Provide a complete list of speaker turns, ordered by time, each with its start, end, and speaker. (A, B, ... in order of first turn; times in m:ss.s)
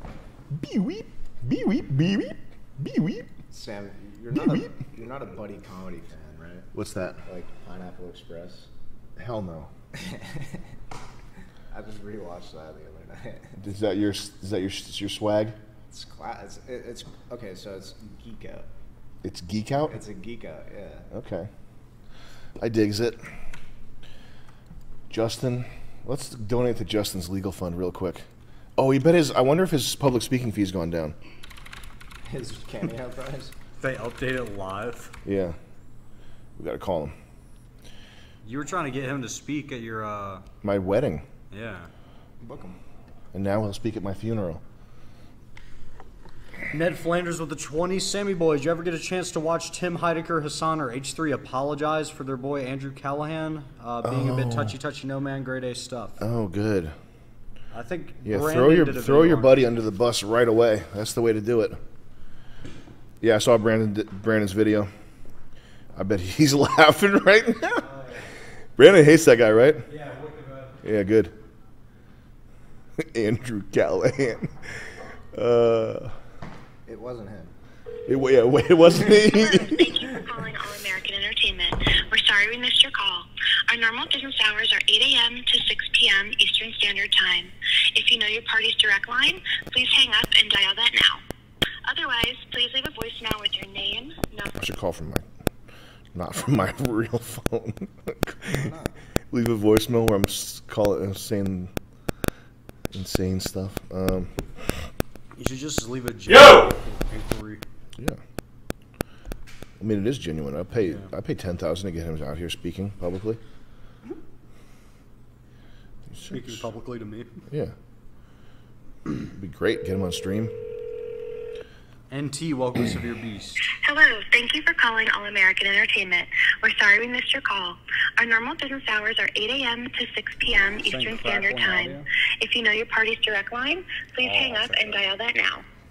0:00.5-0:03.3 A
0:03.5-0:06.7 B
0:04.4-0:04.7 A
0:06.7-0:07.2 A
0:07.3-0:08.7 B
0:09.2-0:09.7 A
0:10.0-0:10.6 B
0:11.7-0:13.6 B
0:13.6-0:15.6 A
0:15.9-0:18.7 B
0:19.2-0:20.0 A
0:19.9-0:21.1 B
0:21.1-0:21.5 A
0:22.6-0:23.2 A
0:25.1-0:28.2 A
0:28.8-0:31.2 A
0:32.3-0:33.5 B
0:33.8-0:35.1 C
0:35.2-0:35.6 A
0:36.6-0:37.1 A
0:38.4-0:40.4 C
0:40.6-0:41.2 A
0:41.5-0:41.9 C
0:42.4-0:42.8 B
0:43.3-0:44.6 A
0:46.7-0:56.2 C
0:54.0-0:54.8 A
0:56.2-0:56.9 A
0:57.7-0:59.6 C
0:58.2-1:01.8 A
1:03.2-1:04.9 A
1:06.0-1:07.9 A
1:08.8-1:09.9 A
1:09.9-1:10.8 C
1:10.8-1:11.3 A
1:13.0-1:16.1 A
1:16.9-1:17.5 B
1:18.1-1:19.9 A
1:19.3-1:31.2 D
1:31.9-1:34.7 D
1:34.6-1:35.3 A
1:36.1-1:38.7 A
1:38.6-1:39.0 B
1:39.3-1:41.7 A
1:42.9-1:44.4 A
1:45.4-1:47.6 C
1:49.8-1:53.4 A
1:56.1-1:56.7 A
1:56.3-1:57.4 C
1:59.2-2:00.5 A
2:02.1-2:03.7 C
2:03.8-2:15.6 D
2:10.8-2:12.1 C
2:14.2-2:15.1 C